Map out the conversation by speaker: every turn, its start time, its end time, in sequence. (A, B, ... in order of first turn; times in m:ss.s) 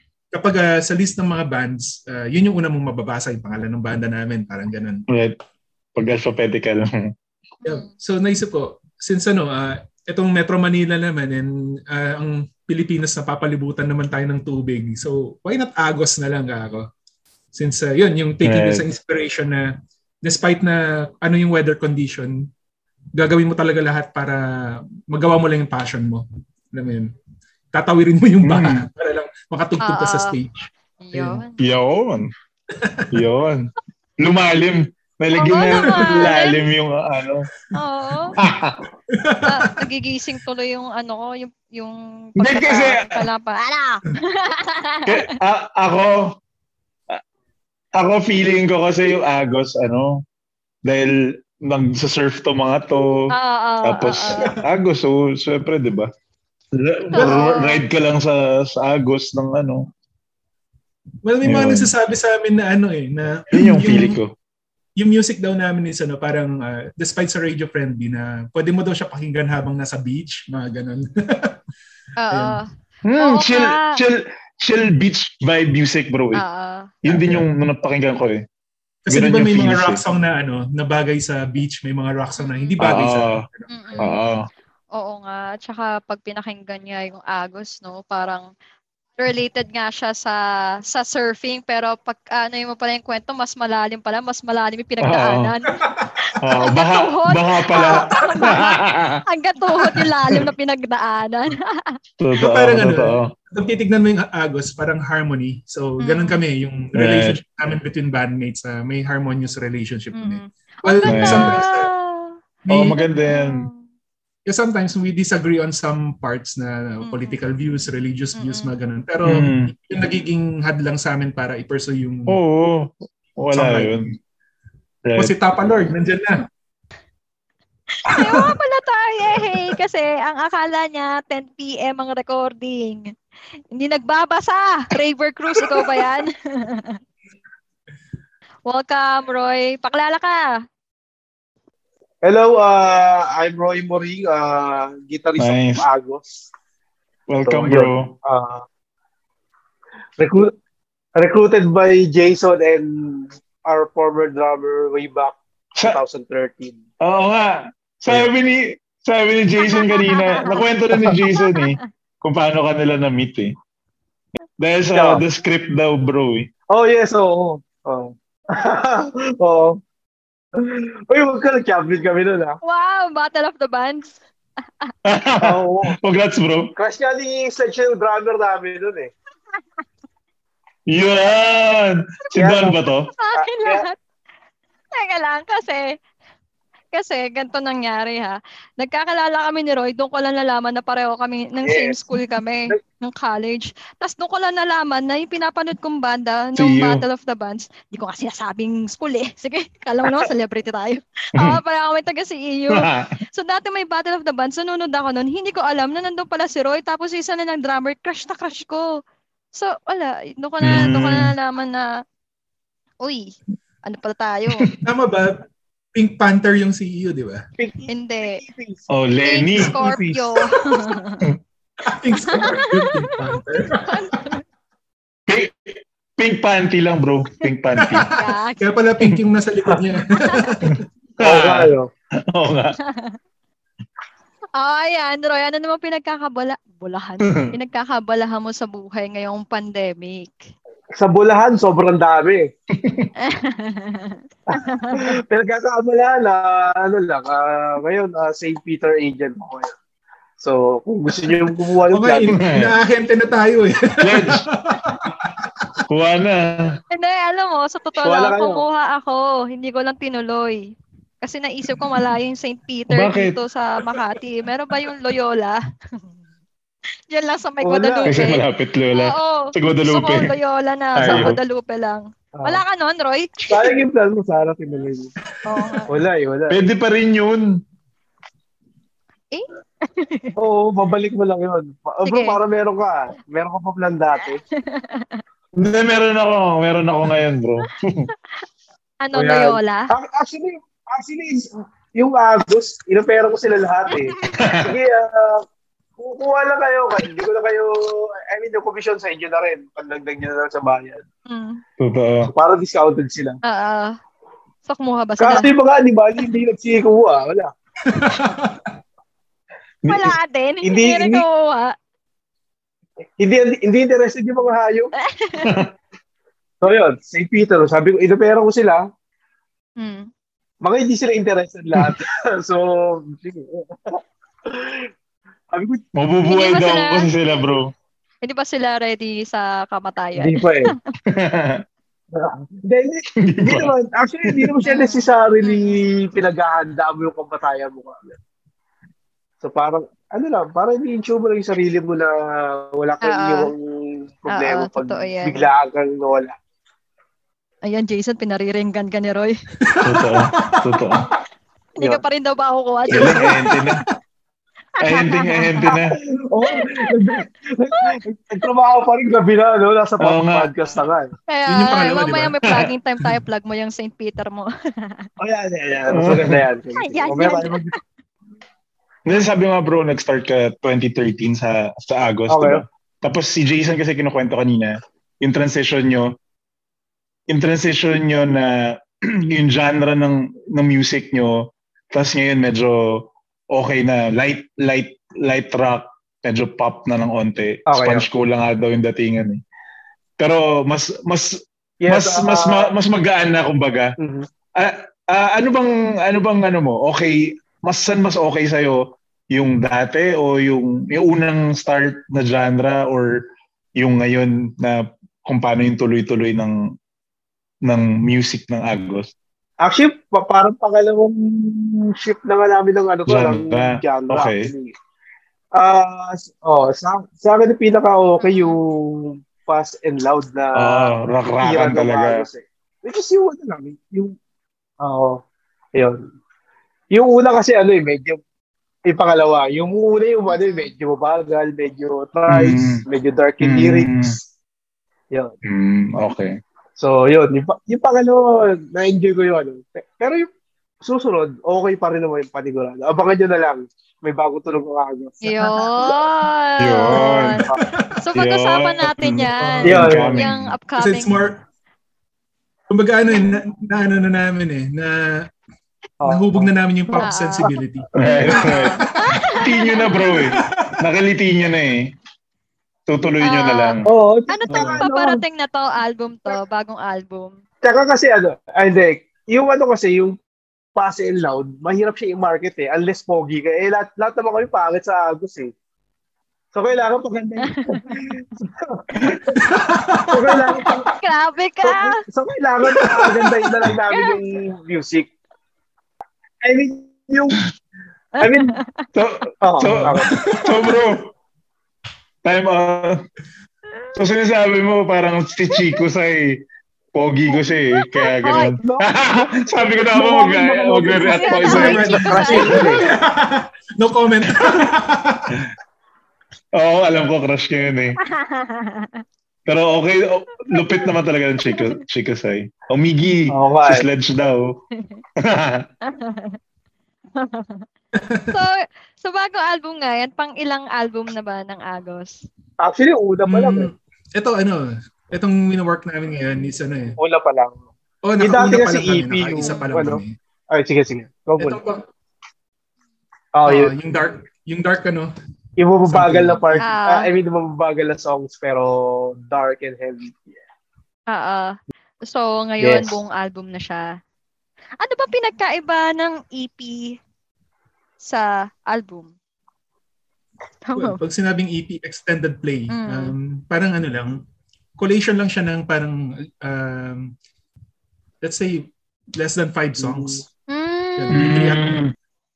0:00.3-0:05.0 A
0:05.1-0:05.4 B
0:06.0-0:07.1 B
0:07.6-0:07.9 C
0:07.6-0:16.9 A
0:17.5-0:19.7 A
0:18.4-0:18.8 B
0:20.2-0:22.5 A
0:23.2-0:24.4 A
0:25.1-0:27.1 A
0:27.7-0:31.4 A
0:28.4-0:28.9 B
0:29.8-0:30.4 C
0:31.0-0:31.6 C
0:31.6-0:32.3 B
0:32.7-0:33.1 A
0:33.1-0:37.5 B
0:35.4-0:36.6 C
0:35.7-0:36.3 A
0:37.7-0:38.3 C
0:38.4-0:38.8 B
0:39.1-0:39.7 A
0:39.4-0:45.3 C
0:42.4-0:43.2 B
0:45.1-0:46.4 B
0:48.0-0:50.2 B
0:50.8-0:53.3 B
0:53.3-0:54.5 C
0:53.8-0:56.1 B
0:56.8-0:59.9 B
0:57.1-0:57.8 C
0:57.2-0:57.4 A
1:01.2-1:04.2 A
1:01.4-1:01.9 B
1:03.5-1:04.3 B
1:05.0-1:11.6 A
1:12.2-1:12.7 C
1:12.3-1:12.6 A
1:13.0-1:16.4 B
1:13.2-1:14.0 C
1:16.4-1:16.9 C
1:17.0-1:18.4 B
1:17.0-1:17.5 A
1:19.1-1:24.2 A
1:19.1-1:20.0 B
1:22.4-1:22.8 C
1:22.8-1:23.4 B
1:23.7-1:24.2 C
1:24.0-1:24.4 B
1:25.0-1:28.5 C
1:29.2-1:30.4 C
1:30.9-1:42.0 C
1:35.0-1:35.5 B
1:35.8-1:36.1 A
1:36.4-1:39.2 B
1:37.8-1:38.1 A
1:42.2-1:43.3 B
1:42.4-1:51.9 A
1:46.0-1:46.4 C
1:47.0-1:47.4 B
1:50.2-1:52.4 C
1:51.1-1:51.6 B
1:52.7-1:53.0 A
1:52.7-1:53.7 B
1:53.0-1:53.8 C
1:54.5-2:02.4 A
1:57.0-1:57.4 C
1:58.4-1:58.7 C
1:59.2-1:59.7 B
2:02.3-2:04.1 B
2:03.5-2:04.0 A
2:05.0-2:05.3 B
2:05.2-2:06.4 A
2:08.1-2:13.1 C
2:08.1-2:08.5 A
2:13.7-2:17.0 C
2:18.7-2:20.5 C
2:22.2-2:26.4 D
2:25.4-2:25.8 B
2:27.3-2:28.1 B
2:27.5-2:28.6 D
2:30.2-2:30.5 D
2:31.2-2:36.8 D
2:37.0-2:43.5 B
2:39.6-2:40.6 C
2:41.3-2:41.8 C
2:44.6-2:46.5 B
2:44.9-2:45.2 D
2:46.7-2:49.8 D
2:50.6-2:52.6 D
2:52.6-2:54.2 C
2:55.0-2:56.7 B
2:55.4-2:56.0 D
2:56.8-2:59.1 D
3:00.9-3:03.1 B
3:02.3-3:02.8 D
3:03.2-3:04.0 C
3:03.4-3:03.9 D
3:04.9-3:06.0 C
3:06.9-3:29.0 C
3:11.6-3:12.0 D
3:16.6-3:17.0 B
3:22.7-3:23.1 B
3:29.5-3:31.9 C
3:30.6-3:31.3 B
3:33.0-3:34.7 C
3:34.8-3:35.4 A
3:36.0-3:37.4 A
3:37.6-3:38.9 D
3:37.9-3:38.4 C
3:38.9-3:39.8 B
3:39.2-3:41.2 C
3:39.6-3:40.3 D
3:41.8-3:44.2 A
3:42.3-3:43.1 C
3:43.8-3:44.4 C
3:45.3-3:48.1 B
3:47.8-3:50.8 A
3:48.1-3:48.7 C
3:50.6-3:51.7 B
3:51.2-3:51.9 D
3:52.3-3:52.8 B
3:52.9-3:53.2 C
3:54.6-4:00.4 C
3:57.2-3:57.5 B
4:01.0-4:02.5 D
4:02.8-4:03.1 B
4:03.2-4:05.2 C
4:04.5-4:09.7 D
4:10.4-4:12.4 D
4:11.9-4:15.5 A
4:12.3-4:12.7 B
4:14.0-4:14.4 B
4:15.9-4:16.8 B
4:16.9-4:20.7 C
4:18.0-4:18.6 D
4:21.2-4:25.6 C
4:22.9-4:23.4 B
4:27.1-4:33.8 C
4:27.6-4:28.3 D
4:28.1-4:30.3 B
4:31.0-4:31.4 B
4:31.0-4:31.4 D
4:32.4-4:32.6 D
4:33.5-4:35.1 D
4:35.4-4:35.9 C
4:35.9-4:36.6 D
4:36.5-4:37.5 B
4:39.3-4:40.4 C
4:40.4-4:44.4 D
4:42.0-4:42.4 C
4:44.6-4:45.2 C
4:45.6-4:48.1 B
4:49.0-4:49.9 C
4:49.1-4:55.4 D
4:53.9-4:54.4 C
4:54.3-4:54.8 B
4:56.0-5:01.0 D
5:01.3-5:01.6 C
5:01.8-5:02.3 B
5:02.2-5:03.4 D
5:03.4-5:04.0 C
5:04.7-5:05.5 C
5:05.2-5:07.5 D
5:07.8-5:08.7 A
5:09.8-5:10.2 B
5:09.9-5:11.8 C
5:10.6-5:11.2 D
5:13.2-5:14.9 D
5:15.0-5:15.5 C
5:15.4-5:15.7 B
5:16.6-5:18.8 D
5:19.8-5:20.1 C
5:20.6-5:24.9 D
5:25.5-5:25.8 D
5:26.0-5:27.7 B
5:26.3-5:27.1 C
5:28.2-5:30.8 C
5:30.2-5:30.7 D
5:31.1-5:31.6 B
5:32.2-5:38.2 D
5:33.2-5:33.7 B
5:34.3-5:34.6 B
5:34.6-5:35.8 C
5:39.4-5:46.3 D
5:43.0-5:43.5 C
5:44.3-5:45.5 C
5:47.7-5:49.3 C
5:49.6-5:50.9 A
5:49.8-5:51.0 B
5:51.8-5:53.4 C
5:52.9-5:53.8 B
5:54.8-5:55.7 C
5:54.8-5:56.0 B
5:55.6-6:01.1 D
5:56.5-5:56.9 C
6:00.0-6:00.5 B
6:01.3-6:05.1 C
6:01.5-6:02.4 A
6:05.2-6:07.7 D
6:05.9-6:06.4 B
6:06.8-6:07.8 C
6:09.1-6:16.2 B
6:12.3-6:12.6 D
6:17.3-6:29.4 B
6:27.7-6:28.1 D
6:30.2-6:34.0 B
6:31.8-6:32.7 D
6:34.0-6:34.3 D
6:34.6-6:38.8 B
6:39.3-6:43.2 B
6:43.8-6:46.6 B
6:47.7-6:49.1 B
6:49.6-6:54.7 D
6:53.1-6:54.5 B
6:55.6-7:04.2 D
6:58.2-6:58.6 C
7:00.6-7:02.2 B
7:04.8-7:05.2 D
7:05.8-7:06.0 D
7:06.9-7:08.2 D
7:08.9-7:14.2 D
7:10.3-7:10.7 C
7:12.3-7:12.8 B
7:13.4-7:14.2 B
7:15.5-7:16.4 B
7:16.8-7:20.3 D
7:20.8-7:26.0 D
7:25.2-7:27.5 C
7:26.6-7:27.4 B
7:26.9-7:27.6 D
7:27.6-7:27.9 A
7:28.0-7:31.1 C
7:28.2-7:30.5 B
7:29.3-7:29.7 A
7:29.6-7:30.2 D
7:30.8-7:31.4 A
7:32.7-7:35.0 A
7:36.0-7:37.5 D
7:36.0-7:39.2 A
7:37.0-7:40.2 C
7:38.0-7:41.9 B
7:40.3-7:40.8 A
7:42.9-7:43.9 B
7:43.2-7:43.8 C
7:43.9-7:45.2 D
7:44.3-7:47.4 C
7:47.6-7:50.2 D
7:50.8-7:55.5 D
7:56.5-7:59.4 D
7:57.5-7:58.0 C
7:59.4-8:00.4 A
8:00.1-8:00.9 D
8:00.9-8:02.0 C
8:01.6-8:05.1 D
8:02.7-8:03.3 A
8:03.9-8:04.2 C
8:06.4-8:07.4 D
8:08.2-8:08.9 C
8:08.2-8:08.5 D
8:09.0-8:11.1 B
8:09.4-8:10.1 D
8:09.7-8:10.7 A
8:12.2-8:13.0 B
8:14.0-8:22.7 B
8:15.5-8:15.8 C
8:17.3-8:18.6 C
8:18.6-8:22.9 D
8:21.0-8:22.8 C
8:21.5-8:25.4 A
8:26.6-8:28.0 B
8:28.0-8:29.0 C
8:29.5-8:34.6 B
8:30.5-8:30.9 C
8:31.4-8:31.8 C
8:33.3-8:33.9 D
8:35.2-8:35.7 B
8:35.8-8:36.4 C
8:37.2-8:37.6 C
8:38.0-8:38.4 A
8:38.3-8:42.2 C
8:42.6-8:43.7 D
8:43.3-8:47.0 A
8:47.0-8:47.6 D
8:48.0-8:50.2 A
8:48.2-8:51.6 D
8:49.4-8:49.7 C
8:51.4-8:51.8 A
8:53.3-8:53.7 D
8:53.5-8:55.1 A
8:55.6-9:00.4 D
8:55.9-8:56.6 A
8:56.6-8:57.1 C
9:01.1-9:01.5 C
9:02.1-9:03.8 C
9:02.6-9:02.9 D
9:04.8-9:07.0 C
9:08.0-9:09.1 C
9:10.7-9:11.0 C
9:10.8-9:14.1 A
9:12.7-9:13.1 C
9:14.8-9:17.1 A
9:18.2-9:20.3 A
9:19.8-9:20.2 D
9:20.5-9:21.3 C
9:21.0-9:21.8 A
9:21.1-9:21.9 B